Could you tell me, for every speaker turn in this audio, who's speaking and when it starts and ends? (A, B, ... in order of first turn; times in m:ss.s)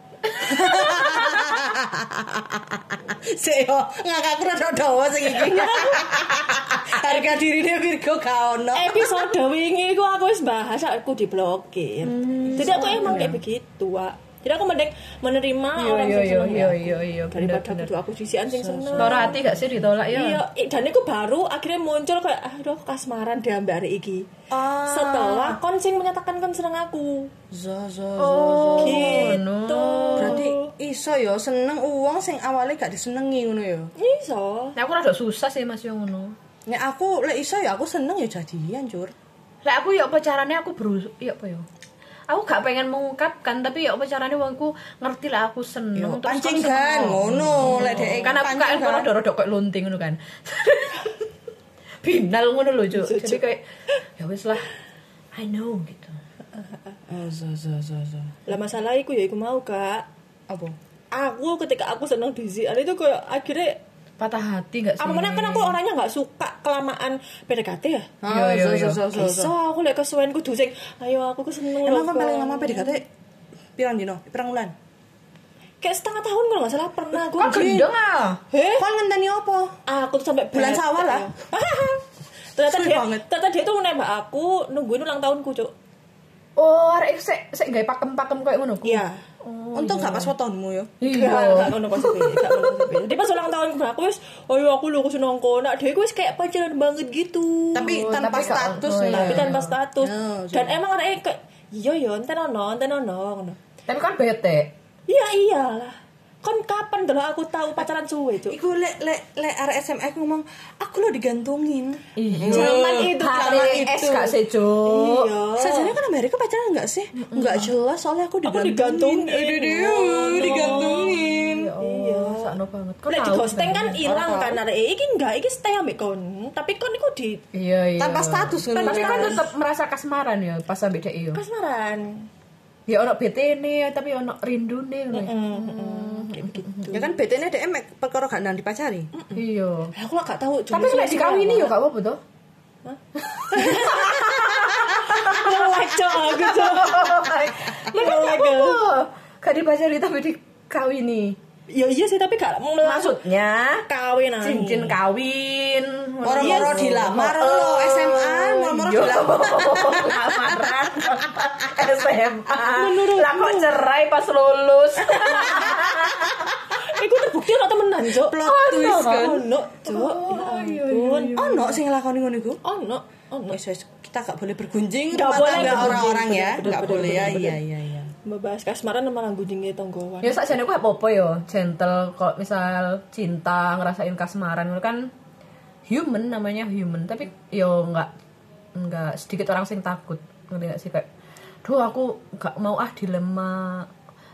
0:00.3-0:01.2 A
0:00.4-0:09.4 B
0:00.6-0:01.7 C
0:05.3-0:07.3 C
0:08.7-0:19.4 C
0:12.0-0:13.4 A
0:15.8-0:17.9 A
0:18.5-0:19.9 B
0:19.0-0:20.4 A
0:20.0-0:24.3 C
0:24.5-0:25.6 B
0:24.8-0:27.3 C
0:27.5-0:29.4 B
0:28.2-0:30.5 A
0:28.8-0:30.6 C
0:30.2-0:33.9 B
0:34.0-0:34.8 C
0:34.8-0:36.3 A
0:36.7-0:39.1 B
0:39.6-0:41.7 A
0:42.3-0:51.3 A
0:46.0-0:49.1 B
0:47.6-0:48.2 C
0:52.0-0:54.7 A
0:52.9-0:53.4 C
0:55.3-0:56.2 A
0:57.1-0:58.4 B
0:58.5-1:00.1 C
1:00.5-1:00.8 B
1:01.1-1:03.8 C
1:04.2-1:05.8 A
1:05.0-1:08.2 C
1:08.2-1:09.5 B
1:08.2-1:09.1 A
1:09.1-1:13.0 C
1:11.8-1:13.0 B
1:13.8-1:14.7 B
1:15.8-1:17.8 C
1:17.3-1:18.4 A
1:17.5-1:17.9 B
1:18.5-1:18.8 C
1:18.8-1:19.8 B
1:19.9-1:25.7 C
1:20.5-1:21.3 B
1:22.7-1:23.2 B
1:26.6-1:30.3 A
1:28.8-1:29.2 B
1:29.7-1:31.0 B
1:31.0-1:32.1 A
1:31.0-1:38.5 C
1:37.7-1:40.8 B
1:37.9-1:39.7 A
1:39.0-1:43.6 C
1:43.9-1:44.7 A
1:45.1-1:48.6 C
1:48.5-1:54.3 B
1:52.2-1:55.3 A
1:52.4-1:56.0 C
1:55.5-2:01.7 B
1:57.3-1:57.7 A
1:58.4-2:01.2 C
2:01.1-2:04.0 A
2:01.8-2:02.6 C
2:03.1-2:07.4 C
2:04.0-2:04.6 B
2:07.5-2:11.4 A
2:08.0-2:09.4 B
2:08.7-2:09.5 C
2:11.3-2:12.2 C
2:12.9-2:16.9 A
2:15.1-2:17.2 C
2:16.9-2:19.1 B
2:19.4-2:19.9 A
2:20.0-2:21.8 C
2:20.7-2:22.2 A
2:23.2-2:31.4 A
2:23.5-2:28.8 C
2:31.7-2:33.2 C
2:32.8-2:33.8 A
2:33.9-2:35.0 C
2:34.4-2:46.6 A
2:36.2-2:40.6 B
2:36.3-2:36.8 C
2:42.7-2:43.7 C
2:45.2-2:45.8 C
2:46.7-2:51.4 C
2:48.2-2:49.5 B
2:48.4-2:49.3 A
2:49.8-2:51.8 A
2:51.4-2:52.6 B
2:52.6-2:53.6 C
2:53.5-2:58.1 B
2:55.1-2:57.6 C
2:55.6-2:56.2 A
2:58.2-3:00.5 C
3:00.2-3:05.0 A
3:05.9-3:08.1 A
3:08.8-3:11.1 A
3:11.6-3:13.9 A